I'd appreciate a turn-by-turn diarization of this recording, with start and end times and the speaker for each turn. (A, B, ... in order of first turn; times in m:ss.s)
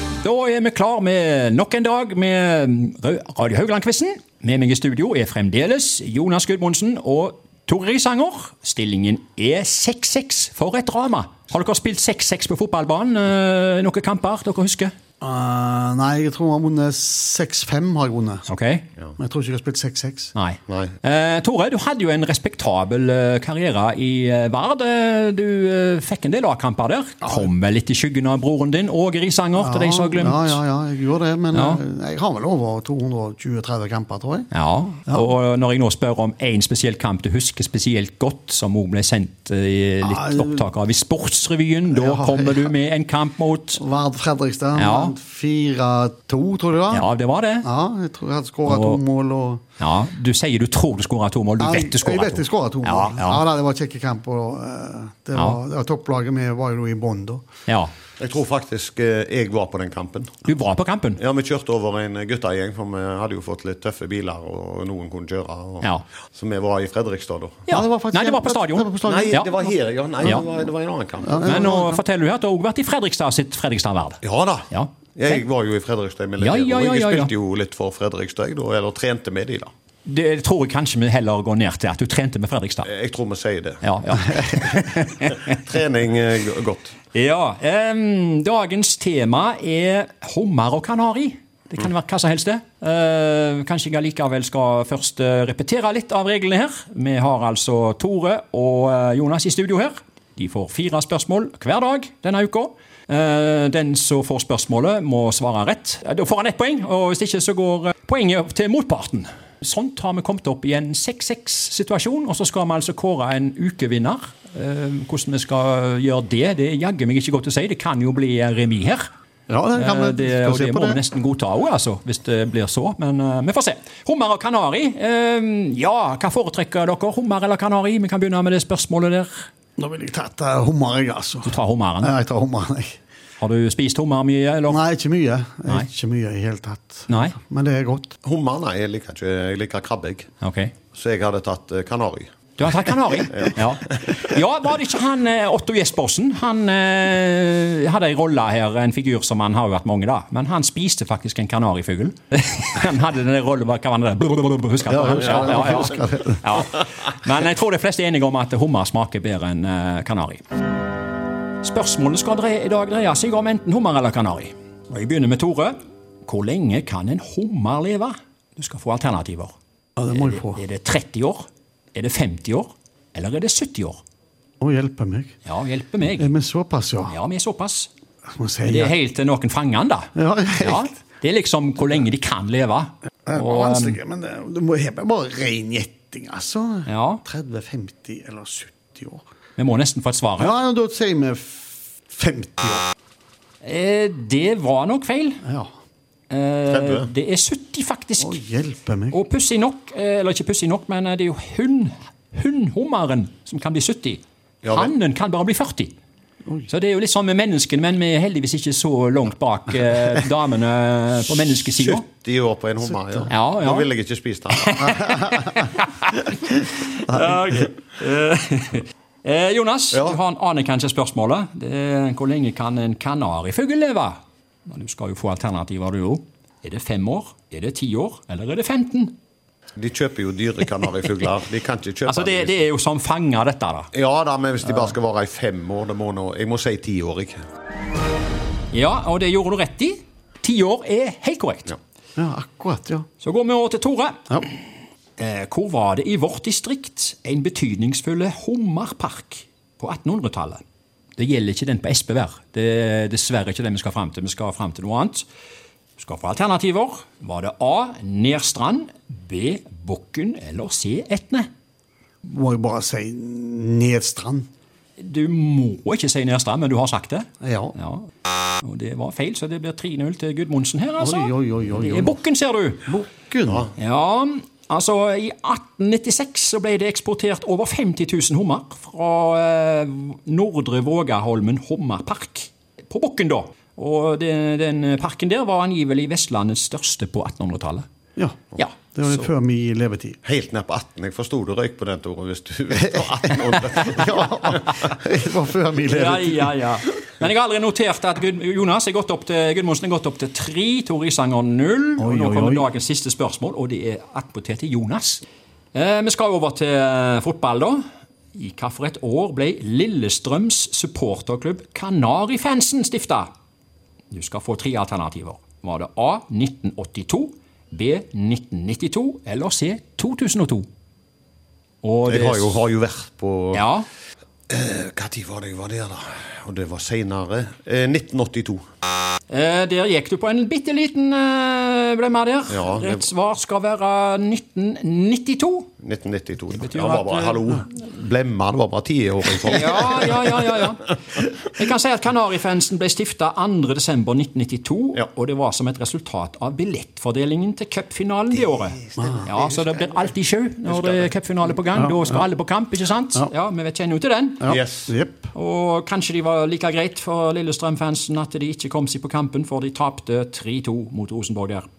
0:00.2-0:14.9 A
0:15.2-0:18.4 B
0:18.5-0:18.9 A
0:19.2-0:20.3 B
0:20.4-0:30.6 A
0:20.7-0:20.9 C
0:29.6-0:34.5 B
0:31.5-0:31.8 A
0:34.5-0:43.8 A
0:40.0-0:40.7 B
0:41.9-0:42.7 B
0:43.8-0:47.1 B
0:44.8-0:45.2 A
0:46.9-0:47.7 A
0:47.6-0:49.6 B
0:48.7-0:49.0 A
0:49.8-0:53.5 A
0:51.6-0:57.4 B
0:57.7-0:57.9 A
0:58.2-1:00.4 C
1:00.4-1:01.2 A
1:01.2-1:07.7 C
1:07.7-1:09.5 A
1:07.7-1:10.5 B
1:09.0-1:11.7 C
1:11.2-1:12.0 B
1:11.4-1:15.4 A
1:14.2-1:19.7 C
1:16.4-1:17.3 A
1:20.1-1:22.9 A
1:22.9-1:23.8 C
1:23.8-1:25.6 A
1:24.6-1:26.9 C
1:27.1-1:59.0 A
1:59.5-2:01.0 B
1:59.8-2:09.5 A
2:09.8-2:13.0 B
2:11.4-2:12.1 A
2:13.4-2:14.8 A
2:14.7-2:18.2 B
2:17.1-2:17.4 A
2:18.2-2:20.3 C
2:20.4-2:20.7 A
2:20.9-2:22.5 C
2:22.6-2:40.4 A
2:23.2-2:24.3 C
2:34.9-2:36.2 C
2:35.0-2:36.4 B
2:41.6-2:49.5 A
2:50.0-2:50.6 B
2:50.1-2:54.0 A
2:54.6-2:55.4 B
2:55.4-2:56.3 A
2:56.2-2:57.2 B
2:57.1-2:57.9 A
2:58.4-2:59.0 B
2:58.6-3:04.0 A
3:00.2-3:00.9 B
3:03.3-3:09.2 B
3:06.9-3:07.2 A
3:09.6-3:10.6 A
3:10.4-3:12.8 B
3:13.6-3:15.4 A
3:15.4-3:15.7 B
3:16.3-3:18.4 A
3:16.7-3:17.1 C
3:18.2-3:19.2 B
3:19.1-3:26.0 A
3:24.6-3:24.9 C
3:26.7-3:32.1 A
3:31.9-3:35.0 C
3:33.3-3:33.9 A
3:34.5-3:49.1 A
3:39.9-3:40.2 C
3:49.8-3:52.6 C
3:52.1-3:53.9 A
3:53.9-3:57.4 C
3:58.7-4:01.7 A
4:02.2-4:03.1 B
4:03.2-4:04.4 A
4:05.2-4:10.6 A
4:11.2-4:15.3 A
4:16.0-4:21.5 A
4:22.2-4:24.5 B
4:25.0-4:28.1 A
4:27.4-4:27.8 B
4:28.6-4:32.9 A
4:31.0-4:32.2 B
4:32.9-4:33.7 B
4:33.8-4:47.8 A
4:48.2-4:50.2 B
4:48.6-4:49.3 A
4:50.2-4:54.9 C
4:53.1-4:56.6 B
4:55.9-5:05.2 A
5:02.0-5:02.7 B
5:05.7-5:07.8 A
5:08.3-5:13.3 A
5:14.1-5:20.7 A
5:21.8-5:22.6 A
5:22.1-5:23.6 C
5:23.5-5:23.9 A
5:24.5-5:28.6 C
5:29.3-5:35.7 A
5:32.5-5:33.1 C
5:35.8-5:40.7 C
5:36.5-5:37.5 A
5:39.5-5:54.6 A
5:48.4-5:51.1 C
5:49.0-5:49.3 B
5:51.7-5:52.2 B
5:54.4-5:55.3 B
5:54.5-5:54.9 C
5:55.3-6:01.7 A